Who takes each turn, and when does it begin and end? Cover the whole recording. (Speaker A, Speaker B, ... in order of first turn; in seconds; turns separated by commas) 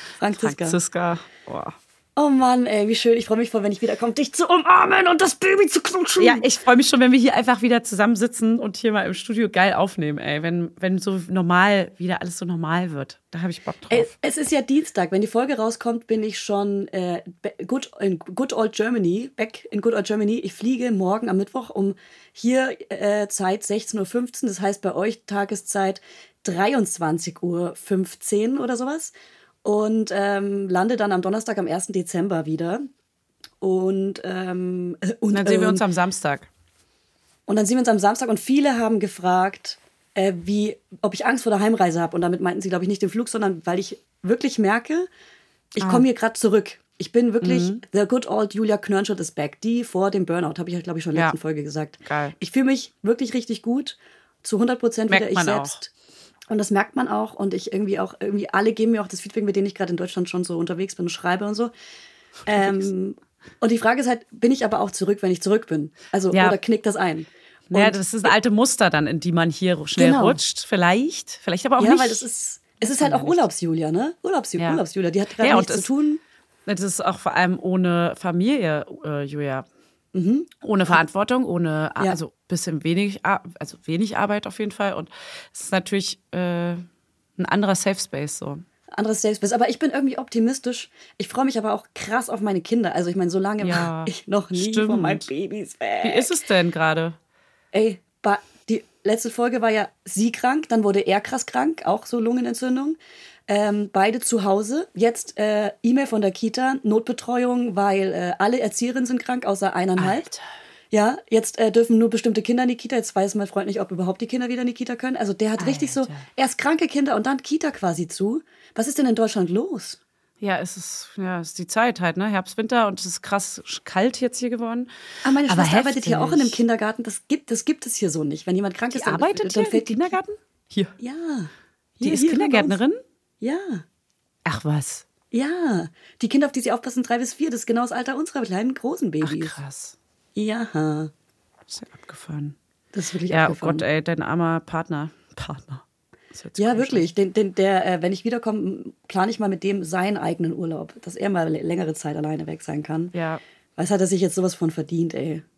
Speaker A: 0.2-0.8, Speaker B: 0.3-1.7, Speaker A: 2.1-6.4, Speaker B: 6.2-14.1, Speaker A: 13.9-29.1, Speaker A: 29.6-32.9, Speaker A: 33.6-35.8, Speaker B: 35.3-36.5, Speaker A: 37.5-45.1, Speaker A: 45.8-55.9, Speaker B: 47.4-47.8, Speaker B: 52.0-52.3, Speaker B: 55.1-55.8, Speaker A: 56.5-61.7, Speaker A: 62.5-68.3, Speaker B: 62.5-62.9, Speaker B: 66.3-66.6, Speaker B: 67.7-72.2, Speaker A: 70.0-70.4, Speaker A: 71.8-76.2, Speaker B: 72.8-73.4, Speaker B: 75.4-75.9, Speaker B: 76.7-79.7, Speaker A: 80.1-81.0, Speaker B: 80.6-86.8, Speaker B: 87.4-88.6, Speaker A: 88.9-96.3, Speaker B: 93.6-95.2, Speaker B: 96.0-97.2, Speaker A: 97.7-103.0, Speaker A: 103.5-110.2, Speaker B: 110.0-110.5, Speaker A: 110.9-120.0, Speaker B: 115.6-116.2, Speaker B: 120.4-124.9, Speaker A: 125.2-130.1, Speaker B: 125.5-126.6, Speaker B: 128.9-130.9, Speaker A: 131.0-132.8, Speaker B: 132.0-133.0, Speaker A: 133.4-133.8, Speaker B: 134.4-135.0, Speaker A: 135.3-139.5, Speaker B: 139.2-139.9, Speaker A: 140.3-141.1, Speaker B: 141.7-142.5, Speaker A: 142.9-143.8, Speaker B: 143.3-145.8, Speaker B: 146.3-147.1, Speaker A: 146.6-153.1, Speaker B: 153.1-153.4, Speaker A: 153.8-155.4